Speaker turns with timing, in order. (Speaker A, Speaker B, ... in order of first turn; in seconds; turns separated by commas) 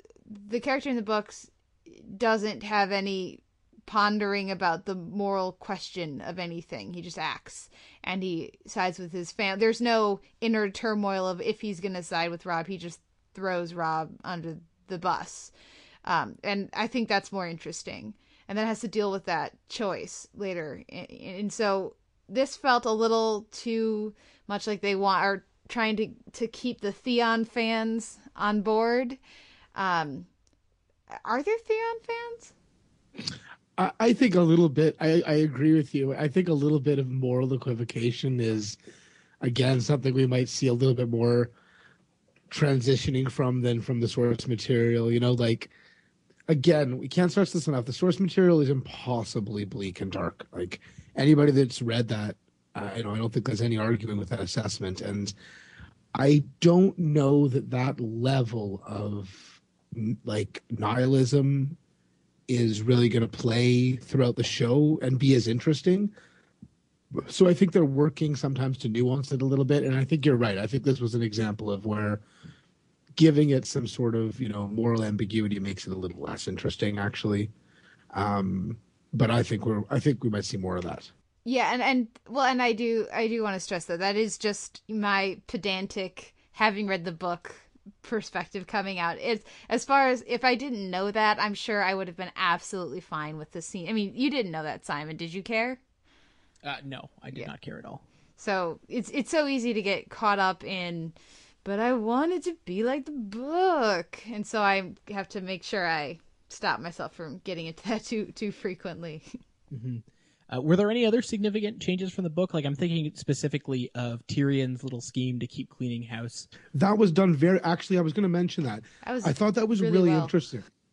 Speaker A: 0.3-15.5, Speaker A: 16.0-29.2, Speaker A: 29.7-30.3, Speaker A: 31.2-32.5, Speaker B: 33.8-38.8, Speaker B: 39.4-41.5, Speaker B: 42.5-45.7, Speaker B: 46.5-55.3, Speaker B: 56.1-61.8, Speaker B: 62.5-66.1, Speaker B: 67.2-72.2, Speaker B: 73.2-77.5, Speaker B: 78.1-81.1, Speaker A: 81.4-95.8, Speaker C: 96.6-98.0, Speaker A: 98.4-109.2, Speaker C: 109.7-116.5, Speaker B: 116.7-120.7, Speaker A: 119.0-120.3